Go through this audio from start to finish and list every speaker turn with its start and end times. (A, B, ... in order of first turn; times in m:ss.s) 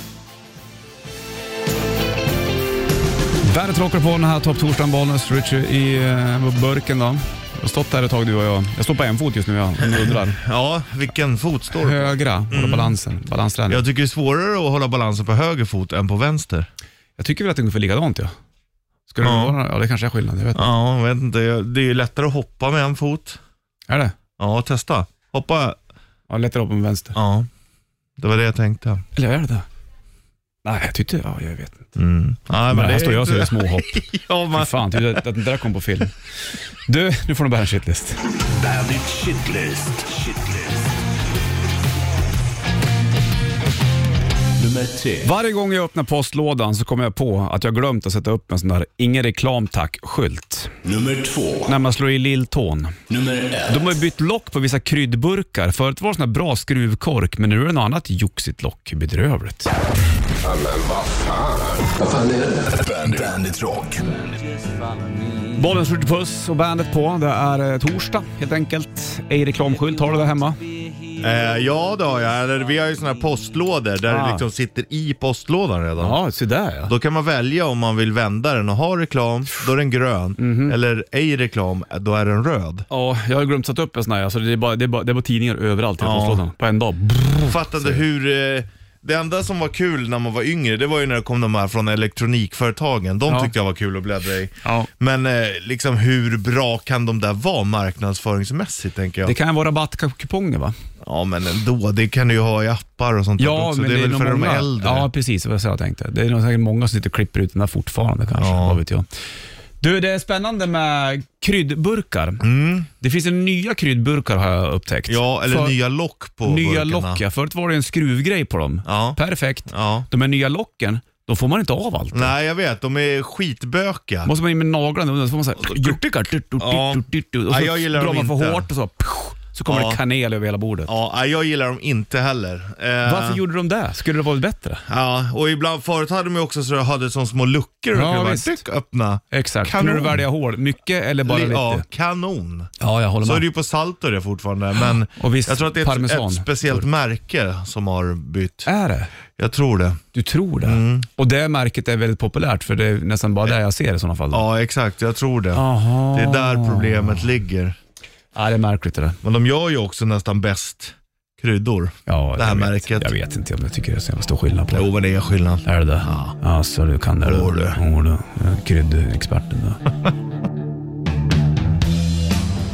0:03.4-0:10.4 A
0:09.9-0:12.9 B
0:11.8-0:13.8 A
0:13.7-0:16.7 B
0:17.2-0:18.3 A
0:19.1-0:20.7 A
0:19.2-0:19.5 B
0:20.5-0:23.4 B
0:23.9-0:24.1 A
0:24.4-0:25.8 B
0:26.3-0:27.2 A
0:27.1-0:27.5 B
0:28.2-0:29.0 B
0:29.1-0:29.6 A
0:30.6-0:31.9 A
0:32.0-0:35.2 B
0:32.7-0:34.0 A
0:34.5-0:36.2 A
0:36.8-0:38.2 A
0:38.4-0:40.9 C
0:44.6-0:45.2 C
0:45.2-0:50.8 A
0:50.8-0:51.7 C
0:51.7-0:53.0 A
0:53.1-0:53.8 C
0:53.7-0:59.7 A
1:00.4-1:04.3 C
1:05.5-1:10.6 A
1:11.2-1:16.2 B
1:14.0-1:14.4 A
1:16.0-1:16.9 A
1:16.9-1:22.8 B
1:20.4-1:20.8 A
1:22.9-1:28.0 A
1:26.0-1:26.4 B
1:27.4-1:39.3 B
1:34.6-1:34.9 A
1:39.2-1:40.7 A
1:41.0-1:45.1 B
1:43.4-1:49.0 A
1:48.4-1:48.8 B
1:49.8-1:55.8 A
1:52.4-1:52.9 B
1:55.1-1:57.2 B
1:56.4-2:02.3 A
1:58.8-2:00.1 B
2:02.1-2:04.3 B
2:04.2-2:10.9 A
2:05.6-2:06.0 B
2:06.6-2:08.7 B
2:09.7-2:10.0 B
2:10.9-2:13.4 B
2:13.0-2:14.8 A
2:14.8-2:20.2 B
2:17.9-2:18.6 A
2:19.3-2:21.8 A
2:21.2-2:28.7 B
2:22.8-2:23.4 A
2:25.2-2:26.8 A
2:28.6-2:29.1 A
2:29.4-2:30.0 B
2:30.1-2:34.4 A
2:30.6-2:31.1 B
2:34.3-2:37.8 B
2:35.5-2:37.3 A
2:38.3-2:39.2 A
2:39.2-2:43.1 B
2:42.1-2:44.9 A
2:44.7-2:46.4 B
2:45.6-2:49.9 A
2:47.2-2:47.8 B